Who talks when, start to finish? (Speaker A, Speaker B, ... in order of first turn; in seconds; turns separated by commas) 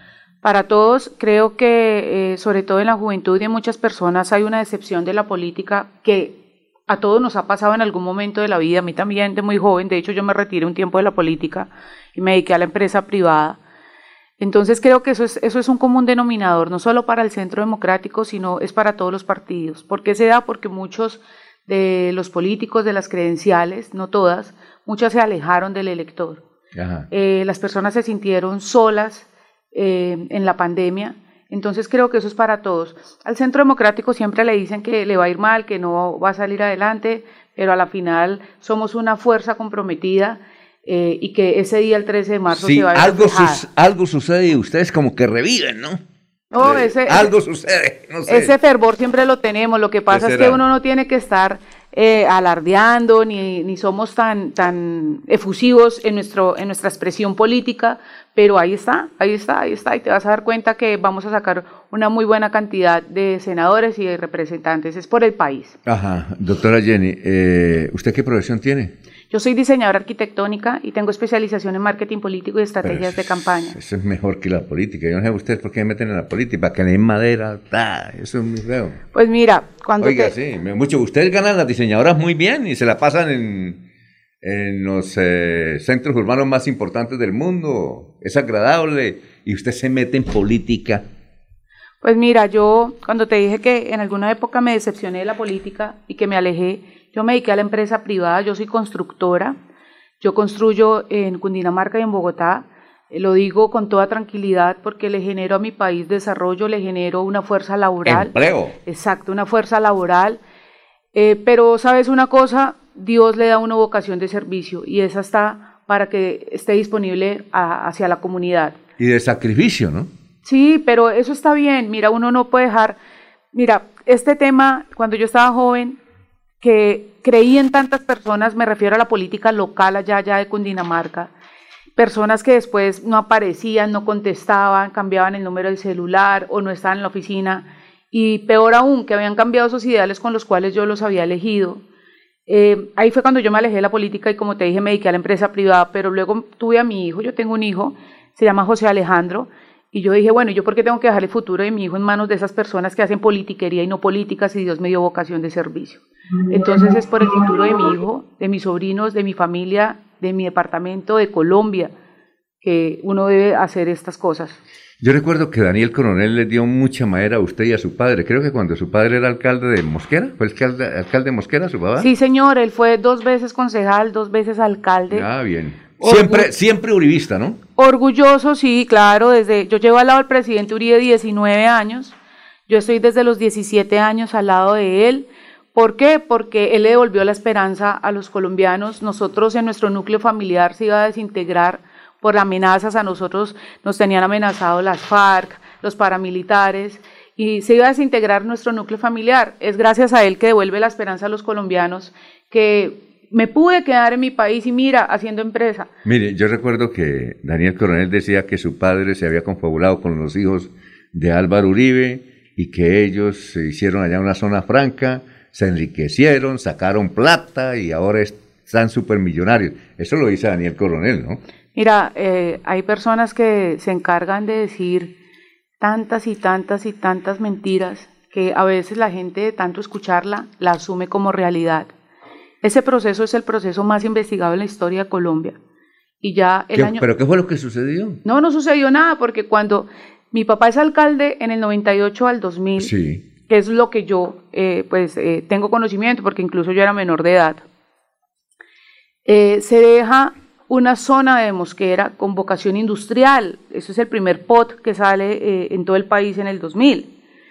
Speaker A: 0.4-6.4, Speaker A: 6.9-13.6, Speaker A: 14.4-26.4, Speaker B: 26.7-27.1, Speaker A: 27.1-43.6, Speaker B: 42.5-46.0, Speaker A: 46.5-47.3, Speaker B: 46.6-48.5, Speaker A: 48.3-65.8, Speaker B: 50.1-50.6, Speaker B: 65.8-68.9, Speaker A: 69.3-73.8, Speaker B: 72.8-79.0, Speaker A: 79.1-80.3, Speaker B: 80.0-83.8, Speaker B: 84.4-91.1, Speaker A: 92.0-99.6, Speaker A: 100.2-108.3, Speaker B: 108.0-108.8, Speaker A: 108.8-110.4, Speaker A: 111.1-118.8, Speaker B: 119.0-120.1, Speaker A: 120.4-123.0, Speaker A: 123.5-126.0, Speaker A: 126.6-131.3, Speaker A: 132.0-141.8, Speaker A: 142.5-161.9, Speaker A: 162.6-164.6, Speaker B: 165.0-172.1, Speaker A: 172.0-175.3, Speaker B: 175.1-177.6, Speaker A: 176.1-176.4, Speaker A: 177.8-182.1, Speaker A: 182.7-205.9, Speaker B: 206.0-221.4, Speaker A: 221.7-225.1, Speaker A: 225.8-231.9, Speaker A: 232.6-235.6, Speaker A: 236.2-237.0, Speaker B: 236.7-238.2, Speaker A: 238.2-242.9, Speaker B: 242.8-243.2, Speaker A: 243.5-247.6, Speaker A: 249.2-257.1